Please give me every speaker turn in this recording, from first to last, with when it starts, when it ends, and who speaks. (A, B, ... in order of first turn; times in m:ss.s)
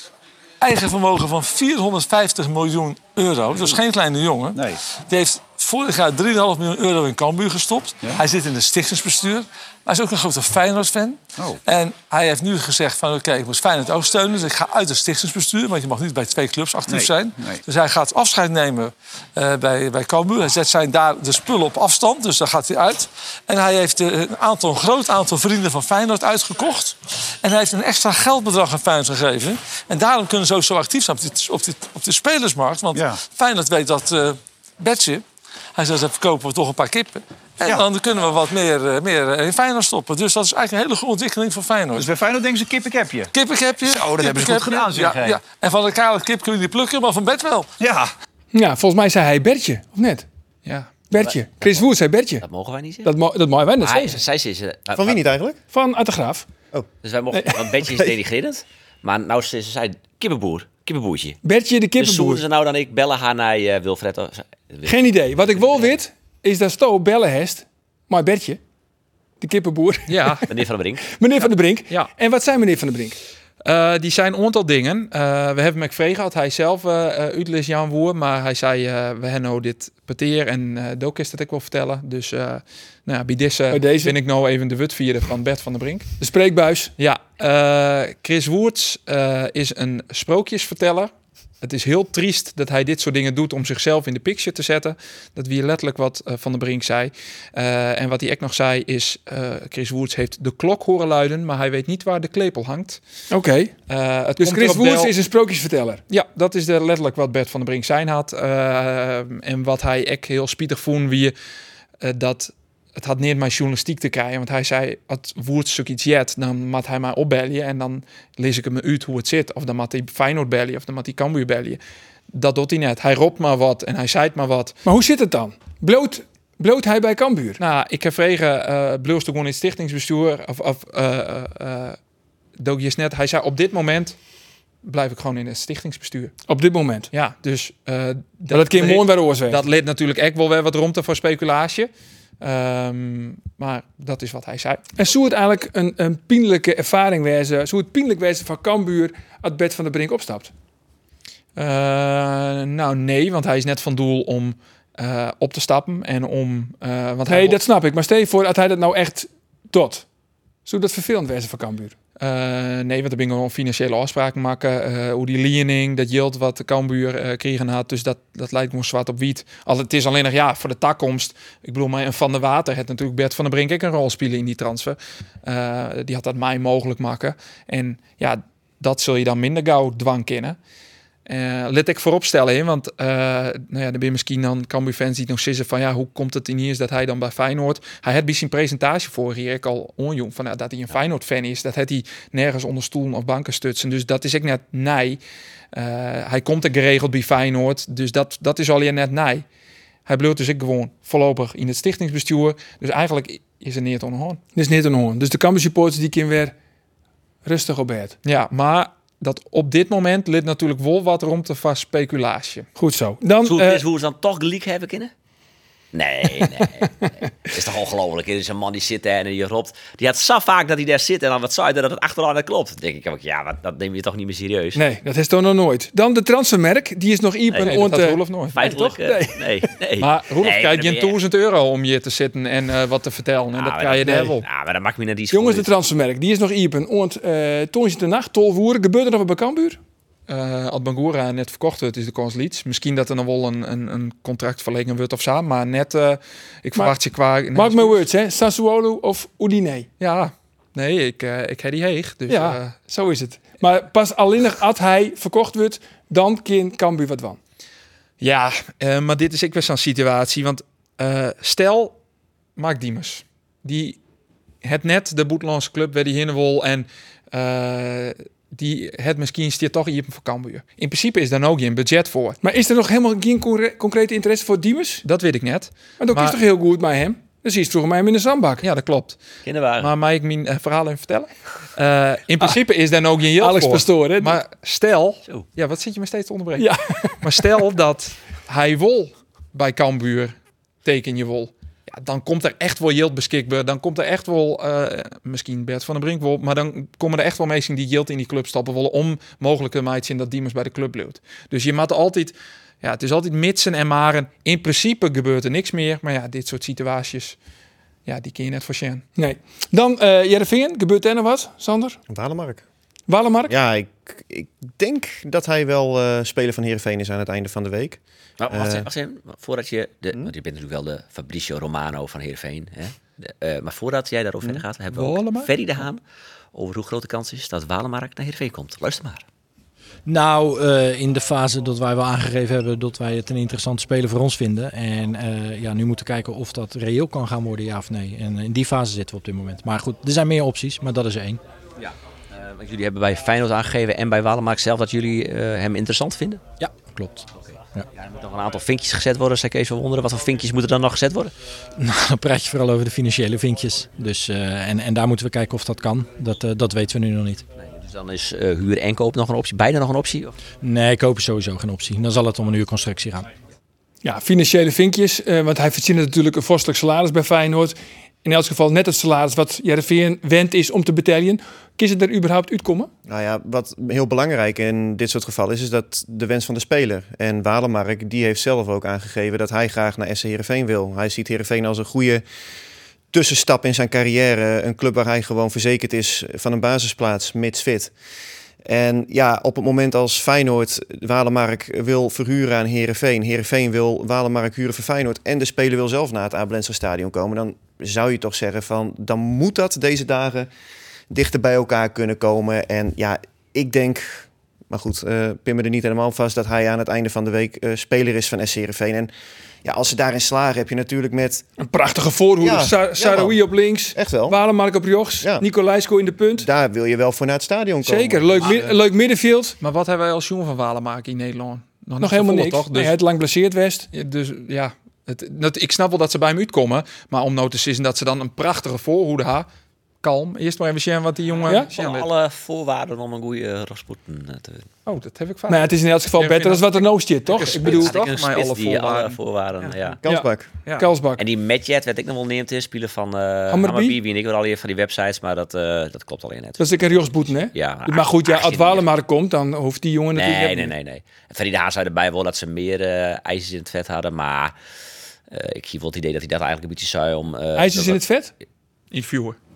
0:00.6-0:35.2 A
0:16.9-0:17.6 B
0:35.8-0:42.1 A
0:42.0-0:43.3 B
0:43.3-0:47.7 A
0:43.8-0:45.4 B
0:47.8-0:48.1 B
0:48.5-0:50.2 C
0:50.6-0:50.9 D
0:51.1-0:52.4 C
0:51.2-0:51.8 E
0:52.4-0:53.1 E
0:53.0-0:54.2 C
0:53.8-0:55.2 E
0:54.9-0:55.6 F
0:55.7-0:56.5 C
0:57.0-1:01.4 E
0:57.3-0:58.1 C
1:01.4-1:02.4 C
1:02.0-1:05.9 E
1:04.8-1:08.6 C
1:09.4-1:10.5 C
1:10.1-1:10.4 D
1:10.5-1:11.1 E
1:11.1-1:13.2 C
1:13.6-1:26.1 D
1:23.7-1:24.2 C
1:26.2-1:26.9 C
1:27.0-1:43.0 D
1:43.3-1:43.7 C
1:43.9-1:45.1 D
1:44.4-1:46.0 C
1:46.1-1:51.3 D
1:52.0-2:01.8 D
2:02.3-2:04.8 D
2:04.8-2:07.6 C
2:07.6-2:12.0 D
2:12.6-2:14.2 D
2:14.8-2:16.3 D
2:16.5-2:17.1 C
2:17.1-2:24.8 D
2:18.5-2:19.6 C
2:25.0-2:30.5 C
2:31.6-2:37.6 D
2:37.3-2:40.0 C
2:40.6-2:41.9 C
2:42.2-3:00.6 D
3:01.2-3:15.2 D
3:15.7-3:19.4 D
3:20.0-3:24.4 D
3:24.5-3:26.5 C
3:27.4-3:28.2 C
3:28.2-3:32.7 D
3:32.8-3:33.8 C
3:33.4-3:35.1 E
3:35.9-3:44.8 E
3:36.4-3:37.2 C
3:44.7-3:49.6 C
3:47.6-3:48.6 D
3:48.5-3:51.2 E
3:50.0-3:54.4 D
3:53.5-3:55.7 E
3:55.3-3:59.8 C
4:00.3-4:08.0 D
4:07.5-4:09.9 C
4:10.0-4:12.7 D
4:12.3-4:17.4 C
4:18.2-4:22.0 D
4:22.6-4:24.0 D
4:24.6-4:32.4 D
4:32.4-4:35.0 C
4:35.0-4:36.4 D
4:36.0-4:38.6 C
4:38.6-4:39.2 D
4:39.4-4:39.9 E
4:39.8-5:07.4 D
4:43.4-4:44.4 C
4:46.6-4:47.4 C
5:08.0-5:09.0 D
5:09.2-5:12.0 C
5:12.1-5:12.6 F
5:13.1-5:13.5 C
5:13.5-5:18.9 F
5:18.4-5:26.0 E
5:24.9-5:25.5 D
5:26.5-5:29.2 E
5:30.0-5:41.4 G
5:41.8-5:46.4 E
5:46.6-5:47.9 G
5:47.4-5:51.3 E
5:51.8-5:57.4 G
5:57.6-6:00.3 E
6:00.6-6:03.3 G
6:04.0-6:12.9 C
6:13.1-6:22.2 F
6:23.1-6:27.9 F
6:28.6-6:40.5 F
6:41.1-6:49.1 F
6:49.6-6:51.4 F
6:51.6-6:56.5 C
6:52.4-6:54.4 F
6:56.4-6:58.7 F
6:57.8-6:59.6 C
6:59.6-7:03.0 D
7:02.0-7:03.9 C
7:03.9-7:09.5 D
7:10.0-7:12.1 D
7:11.4-7:14.7 E
7:14.8-7:19.9 D
7:15.5-7:17.9 C
7:17.4-7:20.0 E
7:20.0-7:20.5 F
7:20.1-7:21.2 C
7:21.2-7:28.8 E
7:23.5-7:24.0 C
7:26.6-7:30.7 C
7:30.1-7:34.5 E
7:35.3-7:38.0 E
7:37.6-7:38.3 C
7:38.9-7:39.4 D